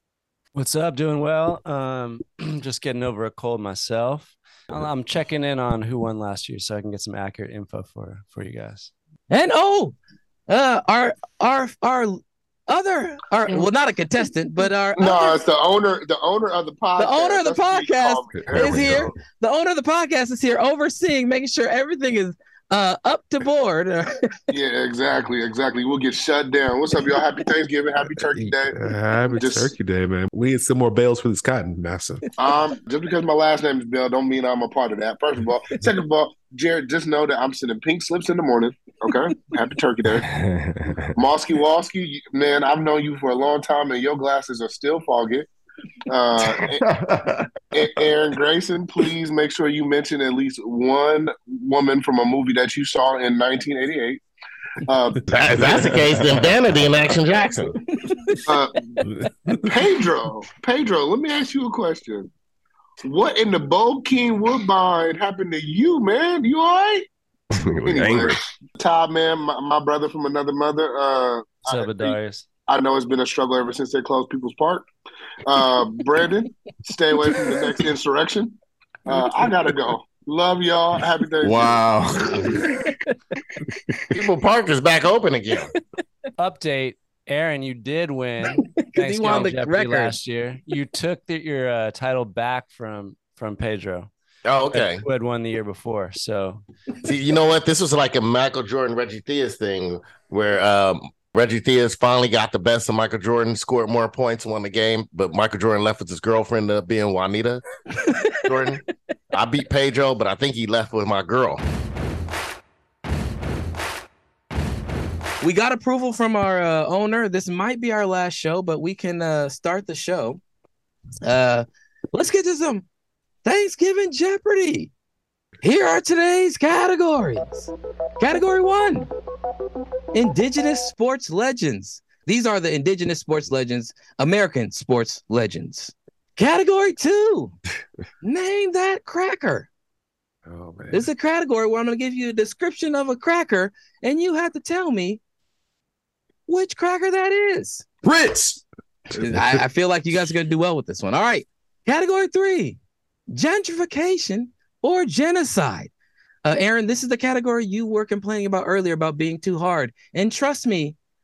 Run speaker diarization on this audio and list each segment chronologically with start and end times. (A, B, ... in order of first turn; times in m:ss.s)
0:00.6-0:08.9 A
0:09.3-0:10.0 B
0:10.5-0:15.4 B
0:15.0-0:18.9 C
0:17.0-0:24.2 B
0:18.3-0:19.1 D
0:18.5-0:19.2 E
0:24.5-0:29.8 C
0:28.0-0:32.3 D
0:32.4-0:40.3 C
0:40.2-0:41.1 E
0:41.2-0:45.5 C
0:46.1-0:46.8 C
0:46.5-0:47.5 E
0:47.7-0:54.2 C
0:54.9-0:55.2 C
0:55.3-0:57.8 F
0:55.9-0:56.6 E
0:58.5-0:59.0 C
0:59.1-0:59.7 D
0:59.6-1:02.3 C
1:03.0-1:07.1 C
1:07.5-1:08.4 E
1:07.9-1:14.9 C
1:11.7-1:12.5 A
1:15.4-1:18.6 C
1:19.1-1:21.8 C
1:21.4-1:22.8 E
1:24.1-1:25.7 F
1:26.4-1:34.1 A
1:28.5-1:30.2 B
1:34.4-1:35.0 F
1:34.7-1:36.6 A
1:37.0-1:47.6 F
1:48.3-1:51.6 F
1:55.4-2:00.4 B
2:01.2-2:02.9 B
2:03.4-2:04.9 B
2:05.6-2:09.1 B
2:10.1-2:17.6 B
2:18.2-2:19.7 B
2:20.5-2:21.1 D
2:20.9-2:25.2 B
2:26.5-2:27.8 B
2:28.0-2:28.6 E
2:29.1-2:32.8 B
2:33.3-2:35.9 B
2:36.4-2:41.0 B